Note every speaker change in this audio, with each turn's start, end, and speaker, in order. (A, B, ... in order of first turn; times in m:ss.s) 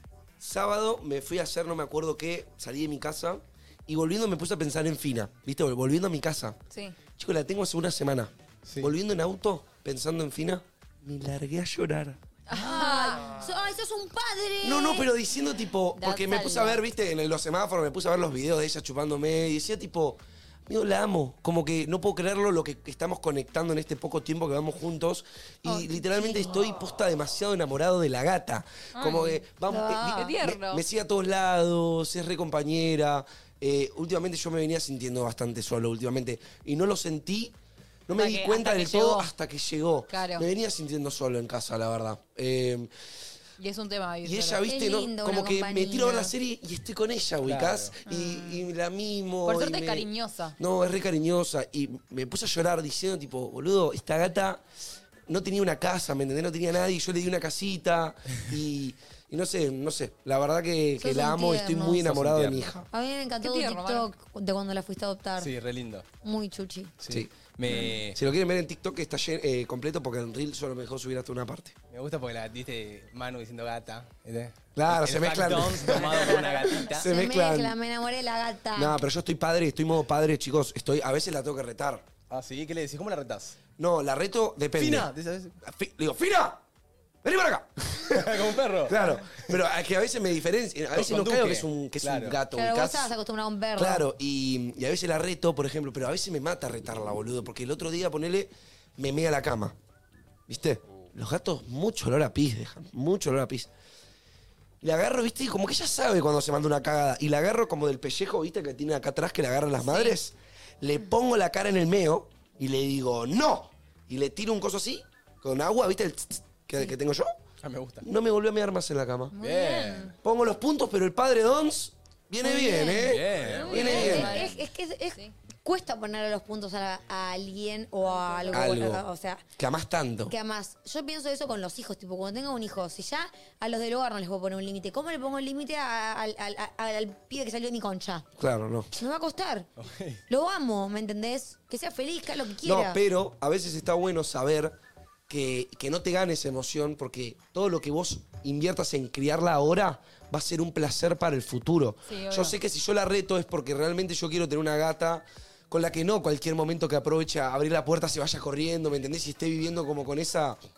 0:00.4-0:06.6 A
0:06.7-0:07.0 B
0:07.2-0:12.2 A
0:08.7-0:08.9 C
0:12.5-0:13.3 B
0:12.5-0:15.1 D
0:14.6-0:37.6 A
0:16.0-0:16.8 B
0:25.7-0:26.8 D
0:29.0-0:30.8 B
0:29.7-0:30.3 D
0:38.1-0:42.9 A
0:38.1-0:39.3 B
0:40.1-0:40.5 B
0:43.6-0:44.6 B
0:44.2-0:54.6 A
0:44.6-0:46.3 D
0:47.4-0:48.0 C
0:48.1-0:48.6 B
0:49.4-0:50.6 B
0:55.3-1:02.9 A
1:01.0-1:02.1 D
1:02.0-1:02.8 C
1:02.9-1:05.5 D
1:03.4-1:04.1 B
1:05.4-1:06.1 C
1:06.2-1:06.9 D
1:07.0-1:08.2 C
1:07.1-1:11.8 A
1:11.9-1:17.1 C
1:14.8-1:17.8 A
1:17.0-1:19.0 D
1:18.8-1:22.1 A
1:22.3-1:23.6 C
1:23.8-1:25.1 A
1:24.8-1:25.6 C
1:25.6-1:26.6 A
1:27.2-1:33.1 A
1:28.0-1:29.5 C
1:30.9-1:32.4 C
1:32.5-1:34.0 D
1:33.8-1:39.8 A
1:40.5-1:43.7 A
1:44.8-1:57.3 A
1:49.8-1:50.2 B
1:57.6-1:58.0 C
1:58.0-1:59.4 A
1:59.3-2:00.2 B
1:59.4-2:00.1 C
2:00.2-2:04.4 A
2:02.4-2:09.5 D
2:03.0-2:04.3 C
2:03.5-2:05.4 B
2:08.0-2:08.7 B
2:08.5-2:09.0 A
2:09.6-2:10.3 A
2:10.3-2:18.3 D
2:18.4-2:18.9 A
2:19.0-2:19.7 D
2:19.8-2:20.2 C
2:20.3-2:23.0 D
2:22.6-2:24.8 A
2:25.3-2:40.6 A
2:32.1-2:32.6 B